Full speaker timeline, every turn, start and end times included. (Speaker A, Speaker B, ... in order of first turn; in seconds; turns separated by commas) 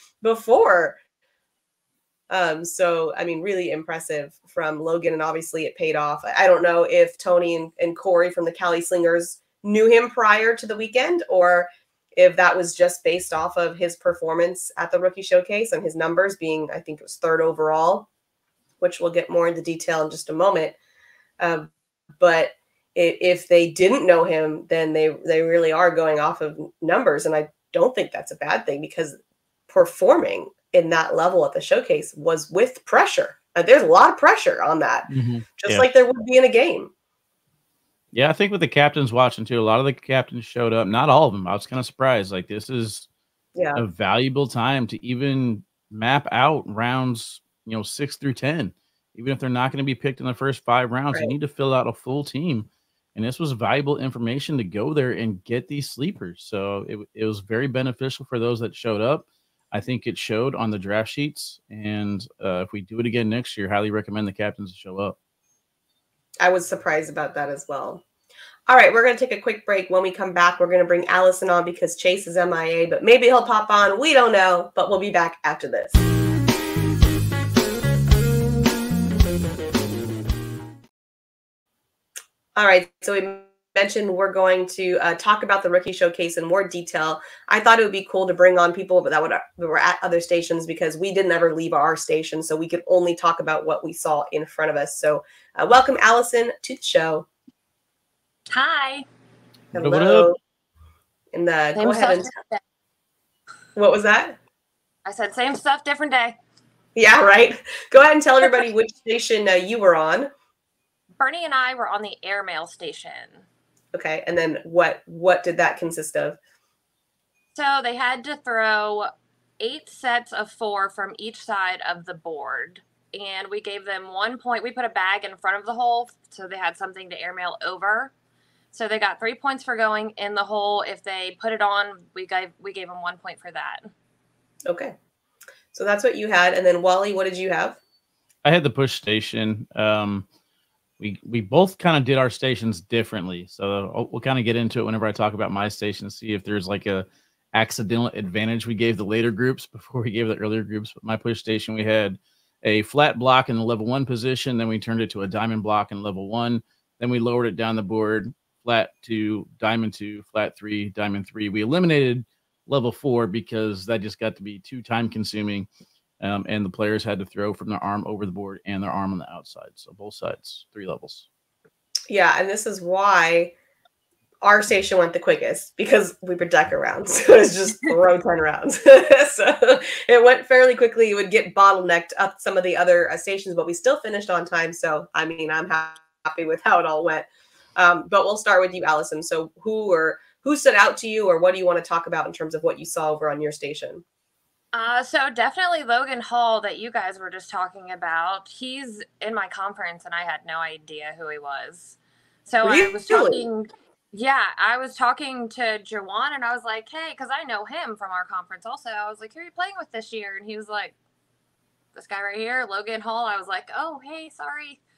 Speaker A: 0.2-1.0, Speaker A: 2.3-18.1, Speaker A: 18.8-20.8, Speaker A: 21.4-29.2, Speaker A: 29.7-36.9, Speaker B: 35.1-35.9, Speaker B: 38.1-43.1, Speaker A: 43.6-43.8, Speaker B: 43.8-65.2, Speaker A: 66.4-68.0, Speaker A: 68.7-76.0, Speaker A: 82.6-97.3, Speaker C: 98.5-99.0, Speaker A: 99.7-100.4, Speaker B: 99.8-100.3, Speaker A: 101.3-102.3, Speaker C: 101.8-102.6, Speaker A: 103.8-104.4, Speaker C: 105.0-106.4, Speaker A: 107.0-110.3, Speaker C: 111.2-113.5, Speaker A: 113.9-116.4, Speaker C: 117.5-128.1, Speaker C: 128.7-133.9, Speaker A: 134.7-134.9, Speaker A: 135.7-137.8, Speaker B: 138.4-140.3, Speaker B: 141.0-165.7, Speaker B: 166.2-171.3, Speaker A: 172.1-173.5, Speaker A: 174.4-194.0, Speaker C: 194.7-210.9, Speaker A: 202.6-203.4, Speaker C: 211.9-214.8